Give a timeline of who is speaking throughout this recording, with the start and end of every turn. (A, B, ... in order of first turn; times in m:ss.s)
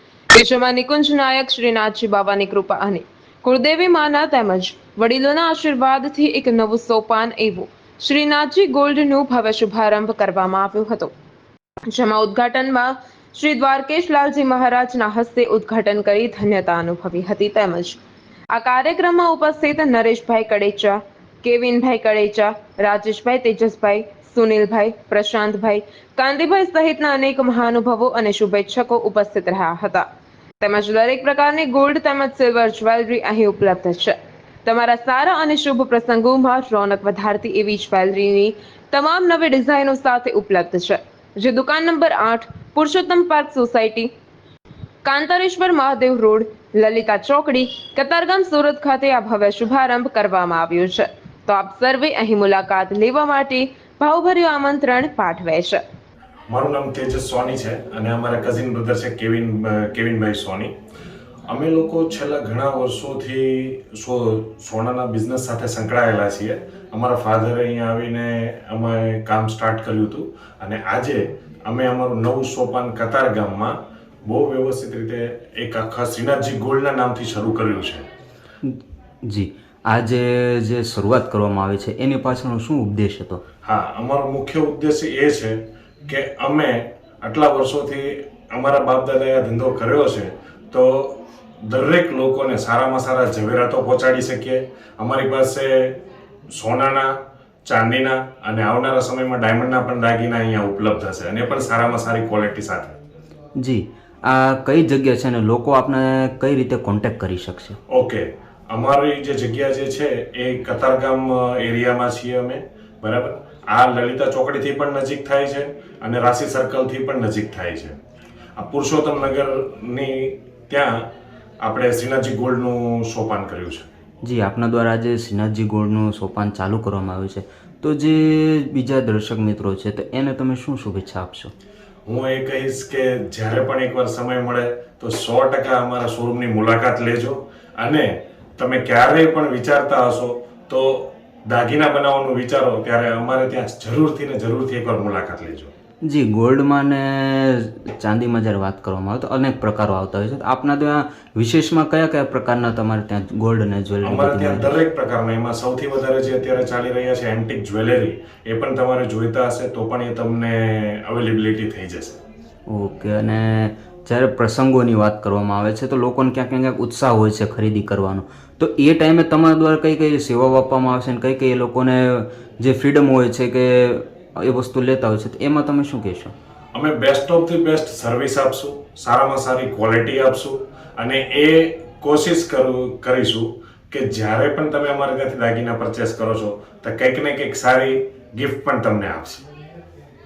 0:00.3-0:11.1 A
0:11.9-0:18.0 A
0:18.5-0:30.0 A
0:30.6-0:44.1 A
0:45.0-0:55.8 A
0:56.5-1:00.7 B
1:01.5-1:13.7 B
1:14.2-1:18.0 B
1:18.6-1:23.4 C
1:23.6-1:36.0 B
1:36.5-1:37.1 B
1:37.7-1:43.0 B
1:43.6-1:47.8 C
1:47.9-1:58.0 B
1:58.6-2:01.0 B
2:01.6-2:03.9 B
2:04.2-2:11.5 C
2:12.1-2:25.7 B
2:26.1-2:34.8 C
2:34.0-2:42.2 B
2:42.7-2:56.3 C
2:56.7-3:09.4 B